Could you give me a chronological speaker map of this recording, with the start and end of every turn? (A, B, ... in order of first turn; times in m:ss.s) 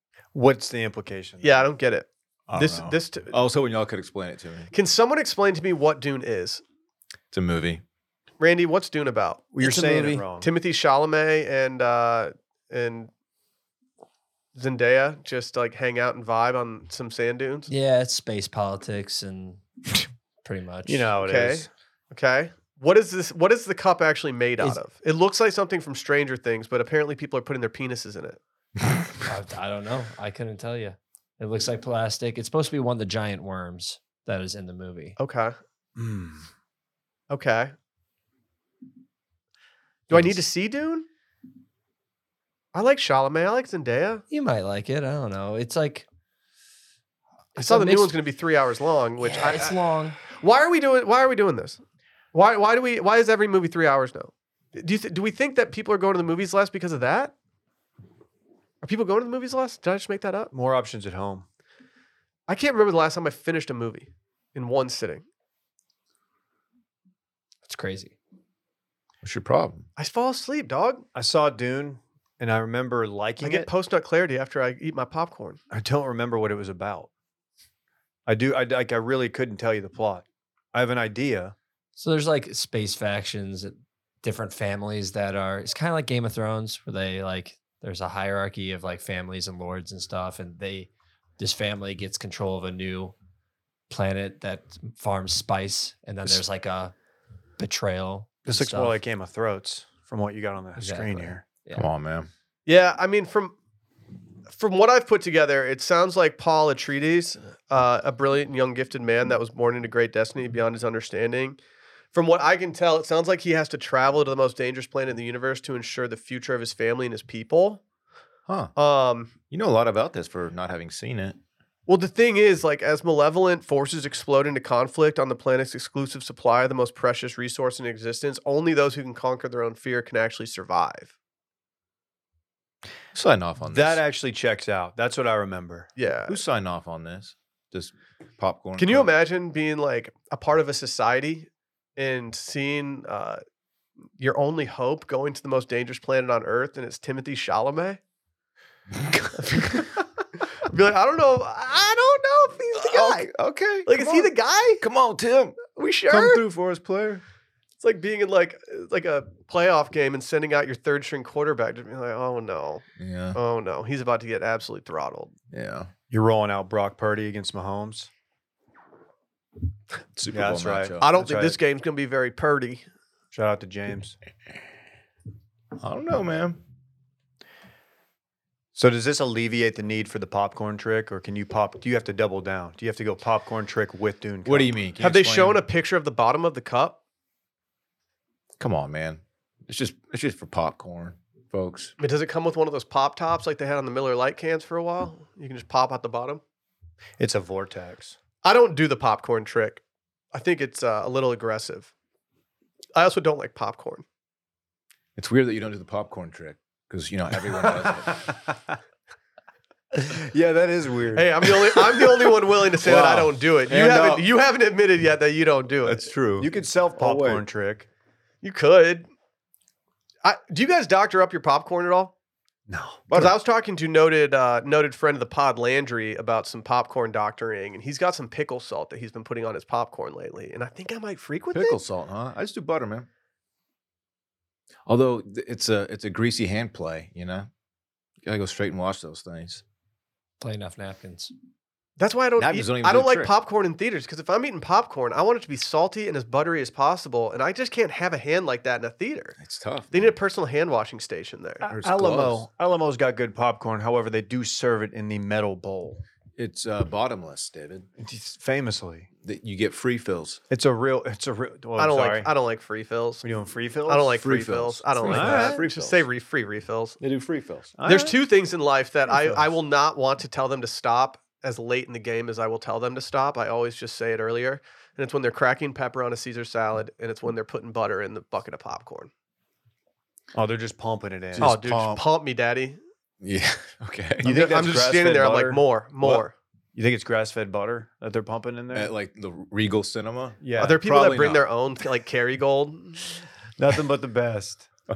0:00.3-0:01.7 A
0:01.4-0:03.3 B
0:02.5-0:04.7 C
0:04.7-0:06.6 B
0:07.3-0:07.8 C
0:08.4-0:09.5 B
0:09.5-0:10.5 A
0:09.6-0:10.2 D
0:10.4-0:13.1 B
0:14.5-0:17.7 B
0:17.7-0:19.6 D
0:20.4-0:21.1 D
0:20.8-0:21.7 A
0:21.2-0:28.4 B
0:29.2-0:35.2 D
0:35.2-0:35.6 B
0:36.0-0:36.4 A
0:37.3-0:37.7 B
0:40.1-0:41.1 B
0:42.7-0:44.2 B
0:44.3-0:46.0 D
0:47.6-0:48.2 D
0:47.6-0:49.8 B
0:49.2-0:50.2 D
0:50.3-0:51.8 B
0:52.3-0:57.3 B
0:58.8-1:00.5 B
1:00.5-1:01.4 A
1:02.5-1:05.2 B
1:07.6-1:08.1 D
1:09.2-1:09.8 C
1:10.0-1:11.0 B
1:11.1-1:13.7 A
1:13.4-1:15.6 B
1:15.7-1:17.1 A
1:18.2-1:21.5 A
1:22.0-1:33.1 D
1:33.9-1:36.9 D
1:37.6-1:39.0 D
1:38.5-1:41.4 A
1:40.8-1:41.8 D
1:41.7-1:42.3 C
1:42.6-1:43.5 B
1:44.5-1:51.6 B
1:52.1-1:57.8 B
1:58.5-1:58.7 C
1:58.8-1:59.3 B
1:59.5-2:01.4 C
2:01.9-2:11.1 B
2:13.1-2:14.0 C
2:13.7-2:15.9 A
2:16.0-2:16.4 B
2:16.3-2:19.1 C
2:18.8-2:23.4 B
2:24.2-2:28.0 B
2:29.3-2:30.0 B
2:30.5-2:33.3 B
2:32.7-2:37.2 C
2:33.8-2:34.8 B
2:35.7-2:36.4 B
2:37.8-2:45.3 B
2:43.0-2:43.4 C
2:45.5-2:45.9 C
2:46.1-2:48.1 A
2:50.1-2:51.0 C
2:50.3-2:51.6 A
2:51.0-2:52.8 B
2:53.3-2:54.2 A
2:55.8-2:56.6 C
2:58.7-3:04.8 A
3:04.4-3:05.6 C
3:05.0-3:07.0 B
3:08.6-3:11.9 C
3:12.0-3:16.4 B
3:17.2-3:18.2 A
3:18.4-3:19.8 B
3:20.3-3:21.9 B
3:22.9-3:24.0 B
3:25.2-3:28.3 C
3:27.8-3:28.7 A
3:29.9-3:32.3 A
3:31.1-3:36.1 B
3:32.8-3:33.3 A
3:33.7-3:34.3 C
3:35.8-3:37.4 C
3:36.4-3:37.9 A
3:38.4-3:39.1 B
3:40.2-3:42.1 B
3:42.7-3:43.0 A
3:43.1-3:43.4 C
3:43.1-3:51.8 B
3:51.5-3:53.1 C
3:54.8-3:57.5 C
3:58.2-3:59.6 C
4:00.4-4:01.3 D
4:02.0-4:09.4 B
4:02.4-4:03.3 C
4:09.4-4:10.1 C
4:09.9-4:11.7 B
4:11.6-4:16.0 A
4:11.7-4:12.4 C
4:16.4-4:17.9 C
4:18.0-4:19.1 A
4:19.2-4:20.4 C
4:20.5-4:22.3 A
4:21.8-4:23.2 B
4:23.2-4:24.2 A
4:23.9-4:27.0 B
4:24.2-4:26.0 C
4:25.0-4:25.6 A
4:27.0-4:27.7 C
4:27.8-4:28.2 A
4:27.8-4:39.1 B
4:29.1-4:29.5 A
4:40.3-4:41.5 A
4:41.3-4:42.0 C
4:41.4-4:42.8 B
4:43.2-4:44.4 C
4:44.2-4:48.9 A
4:44.2-4:46.3 B
4:48.7-4:51.4 C
4:50.4-4:50.8 A
4:50.6-4:53.2 B
4:53.6-4:54.7 A